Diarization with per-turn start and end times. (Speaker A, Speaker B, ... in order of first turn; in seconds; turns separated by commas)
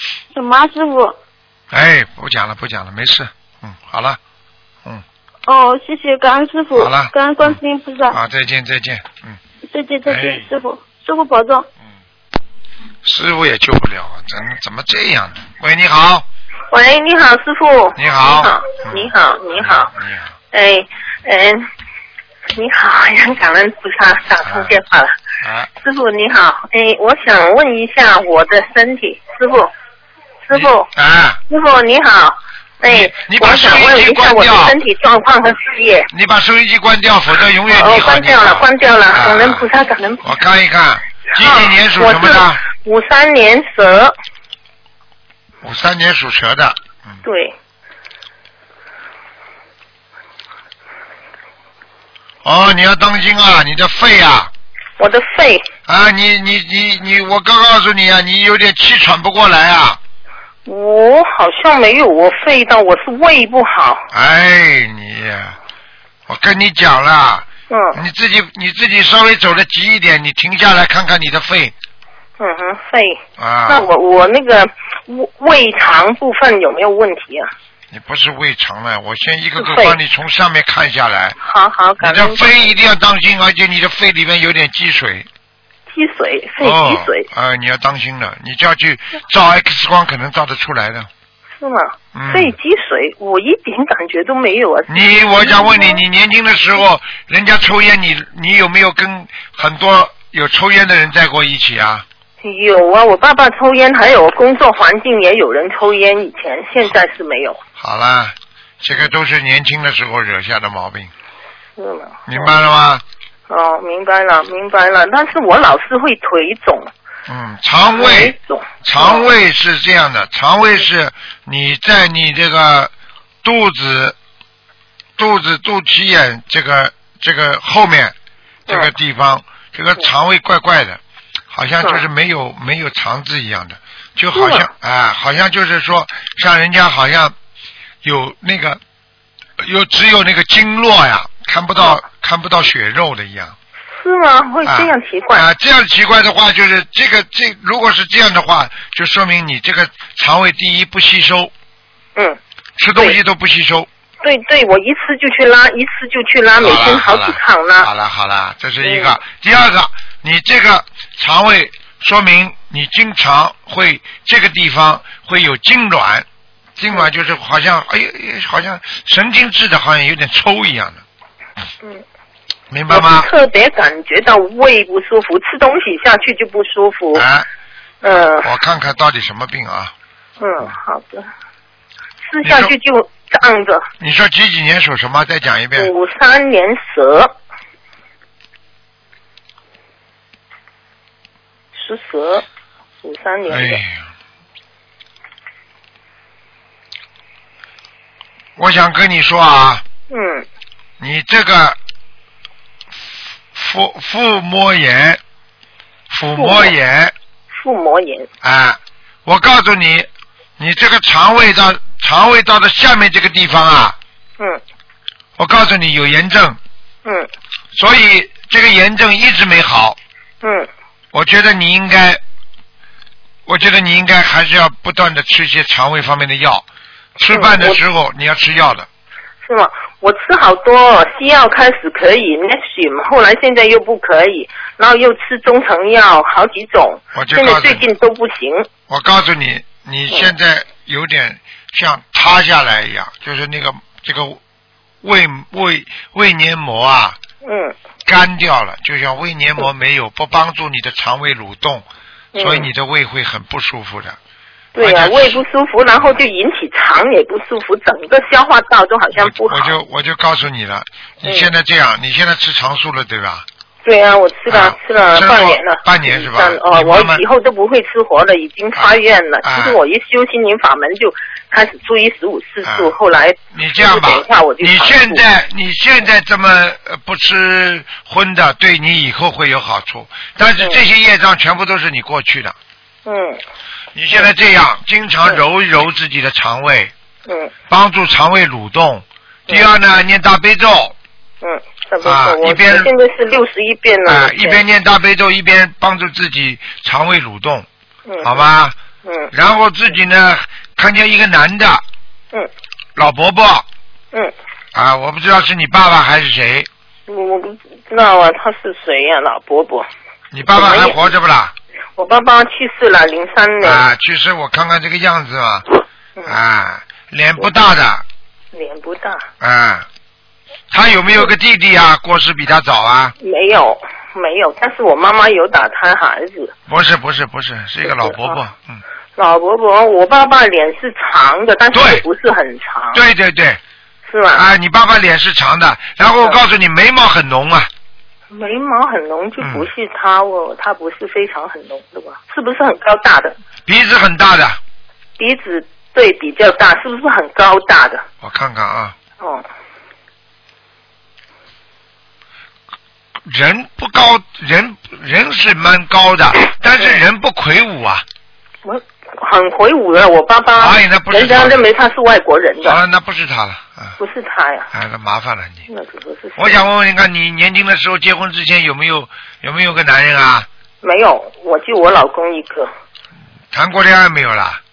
Speaker A: 0.3-1.2, Speaker B: 1.7-4.2, Speaker A: 5.5-8.2, Speaker B: 6.7-7.6, Speaker B: 8.1-9.4, Speaker A: 9.7-11.7, Speaker B: 10.1-10.5, Speaker B: 13.0-16.2, Speaker C: 16.7-19.9, Speaker B: 17.9-20.3, Speaker C: 20.5-21.6, Speaker C: 22.6-25.1, Speaker B: 24.4-24.8, Speaker B: 25.4-25.7, Speaker C: 25.8-29.7, Speaker C: 30.5-30.9, Speaker B: 30.5-31.4, Speaker C: 31.5-36.1, Speaker B: 32.9-34.8, Speaker B: 36.1-39.7, Speaker C: 37.7-40.2, Speaker B: 40.2-42.6, Speaker C: 41.4-44.1, Speaker B: 45.6-47.2, Speaker C: 47.2-47.5, Speaker B: 52.4-54.5, Speaker C: 55.0-55.6, Speaker B: 55.9-60.0, Speaker C: 60.6-64.1, Speaker B: 64.1-65.6, Speaker B: 66.3-71.7, Speaker C: 67.7-68.0, Speaker C: 72.4-77.5, Speaker B: 73.4-73.9, Speaker B: 77.9-81.4, Speaker C: 79.6-80.0, Speaker C: 81.4-82.7, Speaker B: 82.0-85.3, Speaker C: 85.9-87.3, Speaker B: 86.6-91.1, Speaker C: 91.6-96.0, Speaker B: 92.1-92.5, Speaker B: 94.9-102.0, Speaker C: 102.4-107.6, Speaker B: 107.8-111.1, Speaker C: 111.8-112.5, Speaker B: 112.3-113.0, Speaker C: 113.5-116.9, Speaker B: 117.3-122.9, Speaker C: 117.9-119.3, Speaker B: 123.4-124.2, Speaker B: 125.2-128.1, Speaker B: 128.7-131.0, Speaker B: 131.5-137.3, Speaker C: 134.3-134.7, Speaker B: 138.0-138.8, Speaker B: 139.6-143.5, Speaker C: 143.9-145.5, Speaker B: 144.6-151.5, Speaker B: 152.8-153.9, Speaker C: 154.2-157.9, Speaker B: 156.6-166.2, Speaker C: 158.8-159.2, Speaker B: 166.8-171.0, Speaker B: 172.7-173.3, Speaker C: 172.9-177.2, Speaker B: 177.1-177.4, Speaker C: 178.0-178.5, Speaker B: 178.4-179.9, Speaker C: 180.4-181.2, Speaker C: 182.3-183.8, Speaker B: 182.4-182.7, Speaker B: 184.0-185.9, Speaker C: 185.8-187.3, Speaker C: 191.7-192.4, Speaker C: 193.0-193.8, Speaker B: 193.5-194.1, Speaker B: 198.6-199.8, Speaker C: 200.1-200.5, Speaker B: 201.0-201.8, Speaker B: 203.5-205.2, Speaker B: 206.1-207.1, Speaker C: 206.3-206.8, Speaker C: 207.5-208.3, Speaker B: 208.4-210.1, Speaker B: 210.6-213.9, Speaker B: 215.4-216.6, Speaker B: 217.7-220.0, Speaker C: 220.4-220.7, Speaker B: 221.1-222.2, Speaker B: 223.4-226.6, Speaker B: 227.2-228.9, Speaker C: 227.3-227.8, Speaker C: 229.4-238.7, Speaker B: 237.1-237.8, Speaker B: 238.9-244.4, Speaker B: 245.0-247.2, Speaker C: 247.4-247.8, Speaker B: 248.0-251.8, Speaker C: 252.3-252.7, Speaker B: 252.4-254.2, Speaker C: 254.7-259.8, Speaker B: 254.8-255.4, Speaker B: 259.2-263.4, Speaker C: 261.2-261.5, Speaker C: 263.8-275.2, Speaker B: 264.5-267.2, Speaker B: 268.8-269.8, Speaker B: 272.6-272.9, Speaker B: 273.5-282.5, Speaker C: 283.1-283.4, Speaker B: 283.9-286.9, Speaker C: 287.2-287.5, Speaker B: 287.7-290.9, Speaker C: 291.4-294.6, Speaker B: 292.0-292.9, Speaker B: 294.1-297.7, Speaker C: 298.1-298.5, Speaker B: 298.2-298.7, Speaker C: 299.0-299.3, Speaker B: 299.3-301.8, Speaker B: 302.9-303.6, Speaker B: 304.7-306.7, Speaker C: 307.1-309.9, Speaker B: 310.3-311.5, Speaker C: 310.5-311.1, Speaker C: 312.0-313.8, Speaker B: 313.6-315.6, Speaker B: 316.3-318.0, Speaker C: 318.5-319.3, Speaker B: 319.4-319.9, Speaker B: 320.7-323.1, Speaker C: 323.2-326.5, Speaker B: 326.7-328.8, Speaker C: 327.8-328.4, Speaker C: 329.2-333.0, Speaker B: 331.7-332.0, Speaker B: 332.9-333.6, Speaker C: 334.1-334.4, Speaker B: 334.3-337.7, Speaker C: 338.3-343.3, Speaker B: 339.4-339.6, Speaker B: 343.6-344.6, Speaker C: 345.2-348.0, Speaker B: 348.2-348.9, Speaker B: 353.2-358.0, Speaker C: 358.6-362.8, Speaker B: 360.6-361.6, Speaker B: 362.6-363.9, Speaker C: 364.0-364.7, Speaker B: 364.7-365.6, Speaker C: 365.7-366.6, Speaker B: 366.4-370.5, Speaker C: 370.8-372.7, Speaker B: 373.5-374.6